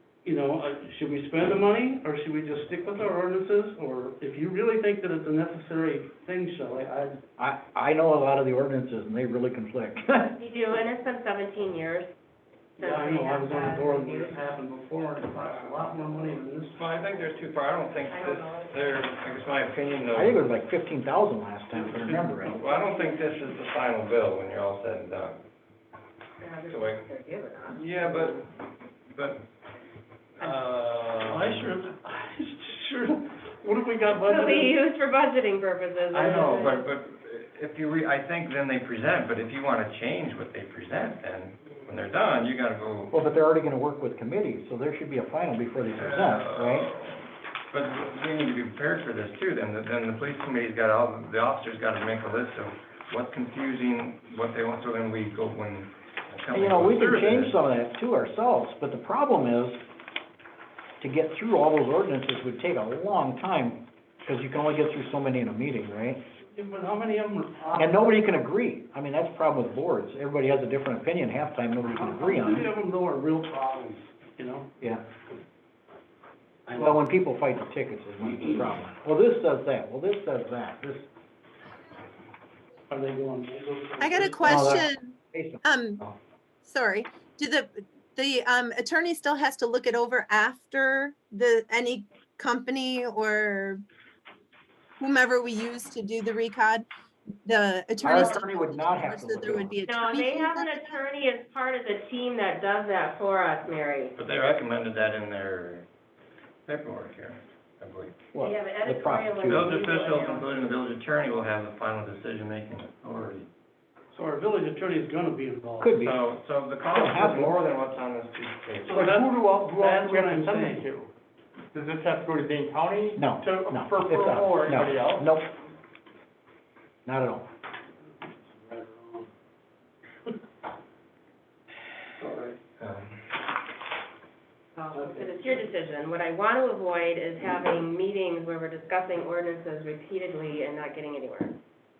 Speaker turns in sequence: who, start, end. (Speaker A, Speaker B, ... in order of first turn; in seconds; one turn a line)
Speaker A: 0.2-7.2
Speaker B: 7.4-10.3
Speaker C: 10.3-12.1
Speaker C: 12.8-14.4
Speaker A: 12.8-16.8
Speaker D: 15.4-16.0
Speaker D: 16.7-20.5
Speaker C: 18.1-19.0
Speaker B: 20.1-22.6
Speaker D: 21.7-25.4
Speaker C: 22.7-23.1
Speaker C: 26.4-28.4
Speaker D: 26.7-27.0
Speaker D: 27.7-28.5
Speaker D: 29.1-29.4
Speaker D: 30.4-31.7
Speaker A: 31.2-34.8
Speaker C: 34.1-36.9
Speaker D: 36.1-43.2
Speaker B: 43.1-46.9
Speaker D: 45.9-57.6
Speaker B: 56.5-59.8
Speaker B: 61.0-66.2
Speaker A: 66.4-68.2
Speaker B: 67.8-72.7
Speaker A: 71.8-74.7
Speaker A: 76.7-77.0
Speaker B: 76.7-81.1
Speaker A: 78.2-78.8
Speaker A: 82.9-84.8
Speaker E: 84.0-86.0
Speaker B: 84.4-85.6
Speaker E: 86.6-93.8
Speaker E: 95.0-96.9
Speaker E: 97.4-101.0
Speaker B: 98.0-99.8
Speaker C: 99.9-104.1
Speaker D: 104.2-105.8
Speaker D: 106.7-108.2
Speaker B: 108.3-109.8
Speaker C: 108.4-110.5
Speaker D: 109.4-113.5
Speaker A: 114.1-116.0
Speaker B: 115.8-116.2
Speaker D: 116.0-119.1
Speaker B: 116.9-117.5
Speaker A: 118.9-120.8
Speaker F: 119.0-121.1
Speaker F: 121.7-125.3
Speaker B: 123.2-125.5
Speaker B: 127.0-127.5
Speaker A: 128.2-129.3
Speaker D: 132.2-133.3
Speaker C: 134.8-141.6
Speaker A: 134.9-135.6